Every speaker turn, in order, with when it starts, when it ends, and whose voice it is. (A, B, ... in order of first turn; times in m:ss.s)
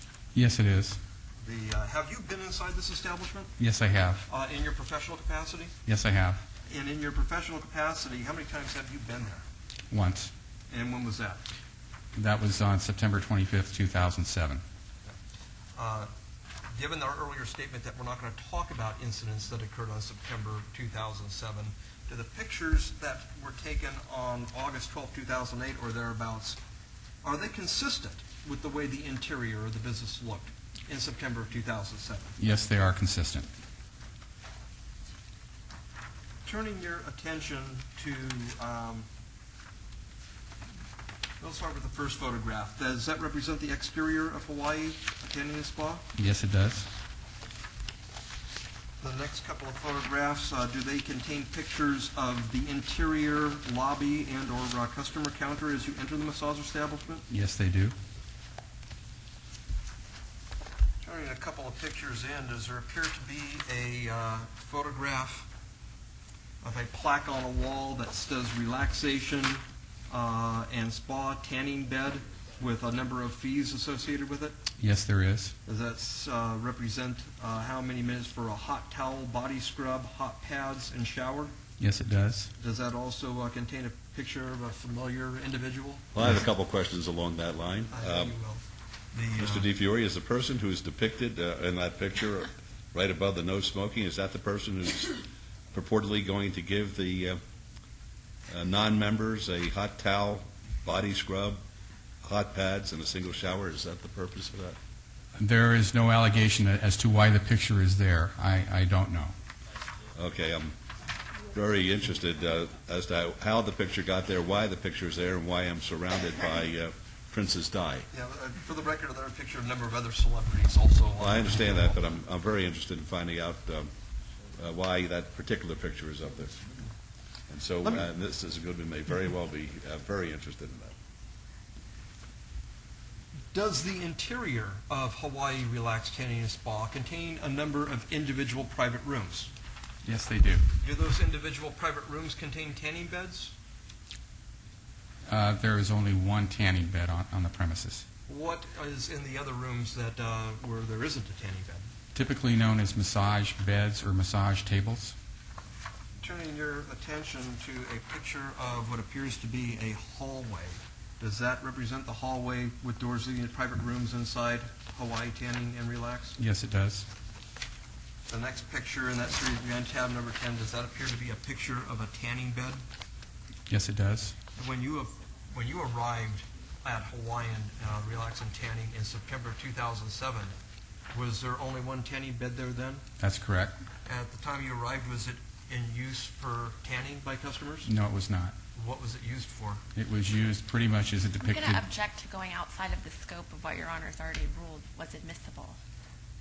0:00.3-0:01.0 A
0:01.4-0:03.5 B
0:03.6-0:04.2 A
0:04.3-0:05.7 B
0:05.8-0:06.4 A
0:06.7-0:09.4 B
0:09.9-0:10.3 A
0:10.7-0:11.4 B
0:12.1-0:14.6 A
0:15.7-0:16.1 B
0:16.7-0:26.6 B
0:27.2-0:32.4 B
0:32.4-0:33.5 A
0:36.4-0:39.1 B
0:41.4-0:46.0 B
0:46.2-0:46.9 A
0:49.0-0:57.2 B
0:57.3-0:57.9 A
1:01.0-1:05.5 B
1:06.6-1:14.6 B
1:14.8-1:15.5 A
1:15.6-1:21.5 B
1:21.8-1:22.5 A
1:22.6-1:26.1 B
1:26.1-1:28.3 C
1:27.9-1:29.7 B
1:29.4-1:35.2 C
1:35.7-1:37.4 C
1:38.5-1:41.6 C
1:42.2-1:44.8 C
1:45.4-1:49.3 A
1:50.1-1:50.8 C
1:51.5-1:58.1 C
1:58.1-2:02.0 B
2:01.2-2:03.9 C
2:04.6-2:06.6 C
2:07.5-2:10.9 C
2:13.5-2:19.5 B
2:20.0-2:20.6 A
2:20.8-2:23.5 B
2:25.3-2:28.0 A
2:28.3-2:31.9 B
2:32.1-2:35.1 A
2:36.2-2:46.4 B
2:46.4-2:47.1 A
2:48.3-2:52.8 B
2:53.7-2:54.3 A
2:54.6-3:00.5 B
3:01.1-3:03.0 B
3:03.2-3:03.8 A
3:04.0-3:07.9 B
3:07.8-3:08.5 A
3:08.7-3:09.8 B
3:09.9-3:11.8 A
3:11.4-3:15.8 D